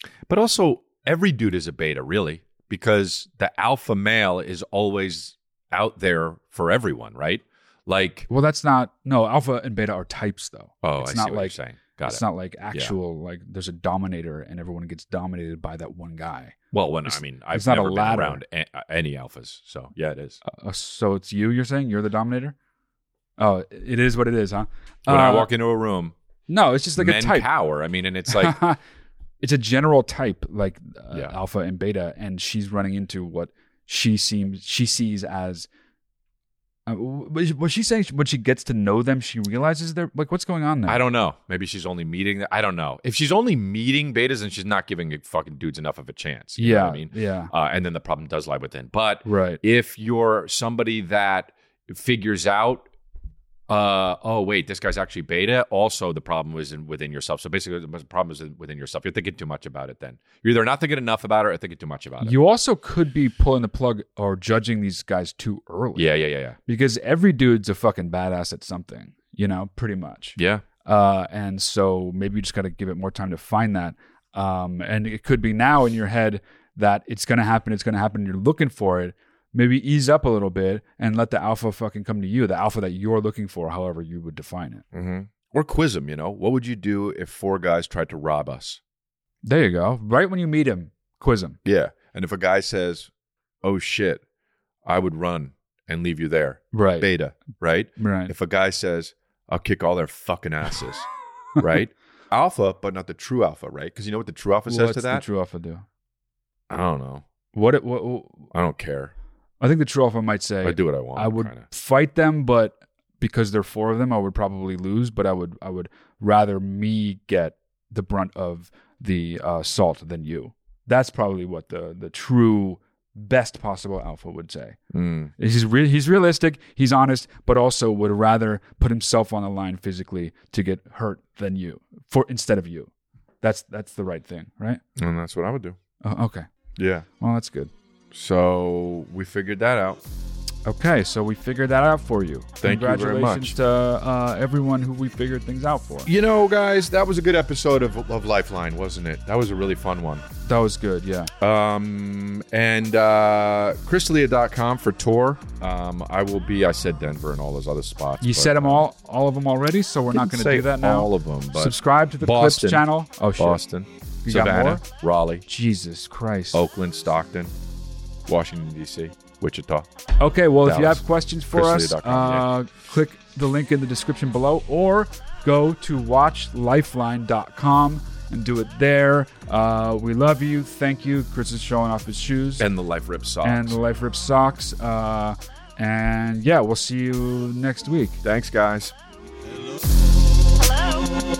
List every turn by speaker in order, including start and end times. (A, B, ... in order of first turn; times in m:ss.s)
0:00.3-0:08.3 A
0:08.3-0:16.6 B
0:10.8-0:13.0 A
0:16.7-0:20.4 A
0:17.1-0:18.4 B
0:20.4-0:22.5 B
0:23.4-0:25.5 B
0:25.0-0:26.1 A
0:26.5-0:27.5 B
0:27.0-0:28.6 A
0:28.3-0:28.8 B
0:29.4-0:35.7 B
0:36.8-0:41.0 B
0:40.9-0:52.9 A
0:46.6-0:47.5 B
0:49.2-0:49.6 B
0:53.7-1:02.4 A
1:02.2-1:06.1 B
1:06.0-1:06.6 A
1:06.6-1:24.8 B
1:10.4-1:10.6 A
1:24.9-1:28.8 A
1:29.4-1:31.6 B
1:31.6-1:33.1 A
1:33.6-1:34.2 A
1:34.8-1:41.1 A
1:36.7-1:37.1 B
1:38.0-1:38.3 B
1:41.6-1:45.2 A
1:44.7-1:45.8 B
1:46.7-1:47.2 A
1:47.5-1:48.5 B
1:48.5-1:49.1 A
1:49.6-2:04.8 B
1:50.6-1:51.7 A
2:04.9-2:05.3 A
2:05.4-2:12.9 B
2:13.4-2:14.8 B
2:15.0-2:15.8 A
2:16.0-2:16.4 B
2:16.8-2:17.0 A
2:17.2-2:17.7 B
2:18.1-2:20.0 A
2:20.6-2:26.1 B
2:22.6-2:23.5 A
2:26.0-2:30.2 A
2:30.4-2:31.3 B
2:31.4-2:38.9 A
2:38.2-2:43.6 B
2:40.1-2:45.4 A
2:44.2-2:44.8 B
2:45.4-2:46.6 B
2:46.5-2:47.5 A
2:48.2-2:49.9 A
2:50.2-3:02.7 B
2:50.6-2:52.5 A
3:02.6-3:03.8 A
3:03.4-3:08.2 B
3:08.2-3:08.9 A